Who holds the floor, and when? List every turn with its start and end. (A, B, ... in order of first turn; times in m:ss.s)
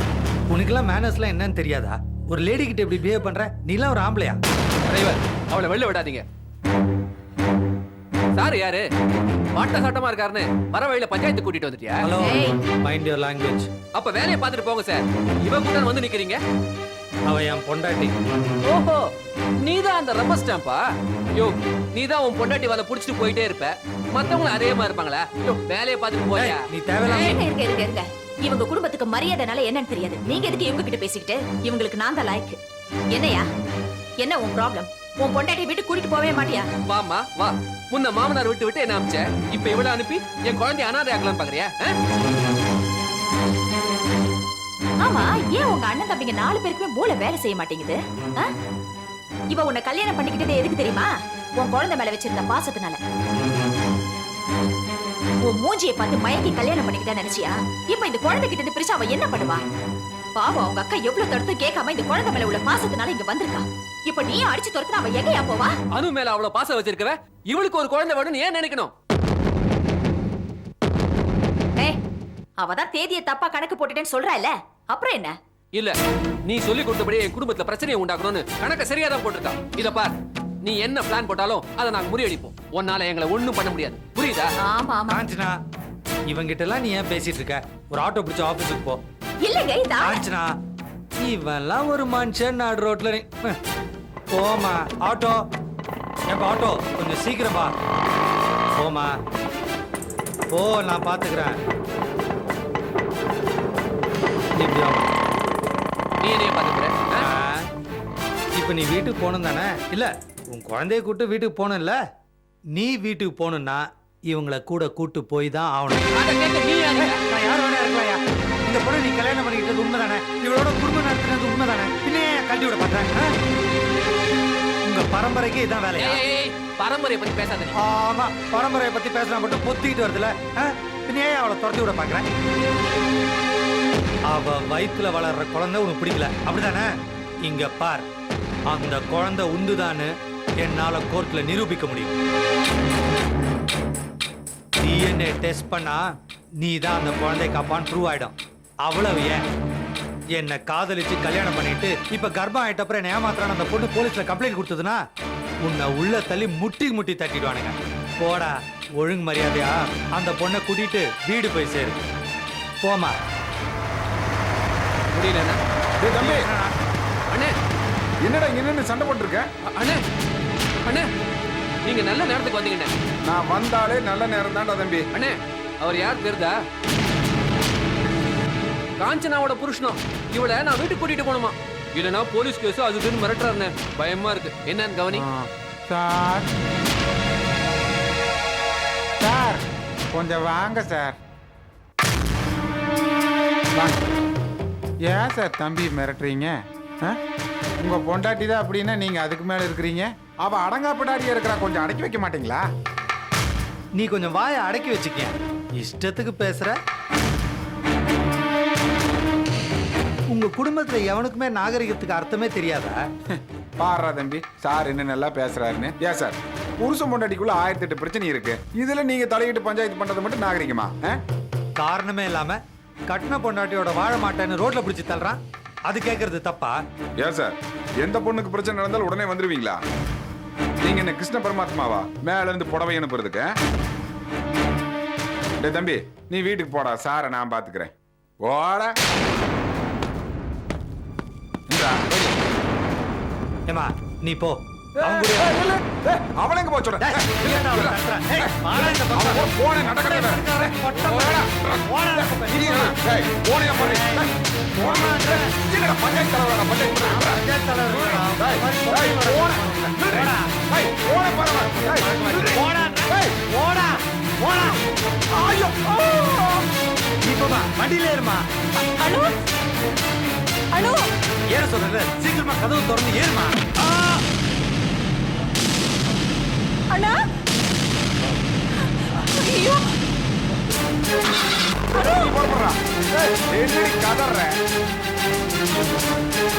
0:00.5-0:04.4 A
0:04.9-0:06.2 B
0:08.4-0:08.9 B
0:09.6-0:12.1 B
0:12.0-0:13.7 A
0:13.9-0:16.4 B
0:17.3-0:18.1 A
0:18.6-0:19.0 B
0:19.6-0:20.8 B
0:21.4-0:26.6 B
0:26.3-0:27.4 A
0:27.0-0:32.6 C
0:33.1-0:33.5 C
0:34.2-0:36.7 C
0:36.9-0:41.9 B
0:45.0-0:48.5 C
0:49.5-0:53.0 C
0:55.4-0:59.6 C
1:00.4-1:05.7 C
1:05.9-1:08.9 B
1:12.6-1:15.3 C
1:16.5-1:24.5 B
1:24.6-1:25.2 C
1:25.1-1:25.6 A
1:26.3-1:29.0 A
1:29.4-1:30.2 C
1:30.0-1:30.5 A
1:31.2-1:33.6 A
1:34.3-1:35.4 A
1:36.3-1:37.7 A
1:38.8-1:39.2 A
1:40.5-1:41.6 A
1:44.6-1:45.1 A
1:46.2-1:47.2 B
1:47.2-1:47.6 A
1:48.6-1:52.0 A
1:52.7-1:56.0 A
1:56.1-1:57.2 B
1:57.0-2:03.3 A
2:04.9-2:06.2 A
2:06.0-2:07.8 B
2:07.7-2:12.3 A
2:14.3-2:16.9 A
2:17.4-2:18.0 A
2:18.7-2:22.2 A
2:24.8-2:26.0 A
2:26.6-2:29.4 A
2:30.3-2:35.0 A
2:35.6-2:42.0 A
2:42.8-2:43.2 A
2:45.1-2:45.6 B
2:46.0-2:46.5 D
2:46.2-2:46.7 A
2:48.2-2:49.5 D
2:49.7-2:50.0 B
2:51.9-2:52.9 B
2:53.3-2:55.0 D
2:55.1-2:56.5 B
2:59.0-3:05.2 B
3:05.1-3:06.5 D
3:09.2-3:11.2 D
3:15.1-3:17.2 D
3:17.8-3:22.6 D
3:24.0-3:26.8 A
3:30.3-3:33.0 A
3:33.3-3:41.2 D
3:41.8-3:46.8 A
3:47.2-3:49.8 D
3:50.8-3:53.5 D
3:55.6-3:58.9 D
4:01.7-4:02.3 D
4:03.7-4:05.6 A
4:05.0-4:17.4 D
4:07.0-4:13.0 A
4:13.7-4:14.3 A
4:14.8-4:15.5 A
4:17.0-4:20.5 A
4:17.9-4:23.4 D
4:21.8-4:24.8 A
4:25.4-4:26.2 A
4:27.2-4:28.4 A
4:29.0-4:29.3 E
4:30.7-4:31.0 E
4:31.5-4:34.2 A
4:36.9-4:37.2 E
4:39.3-4:39.9 E
4:41.9-4:44.5 D
4:42.0-4:42.3 E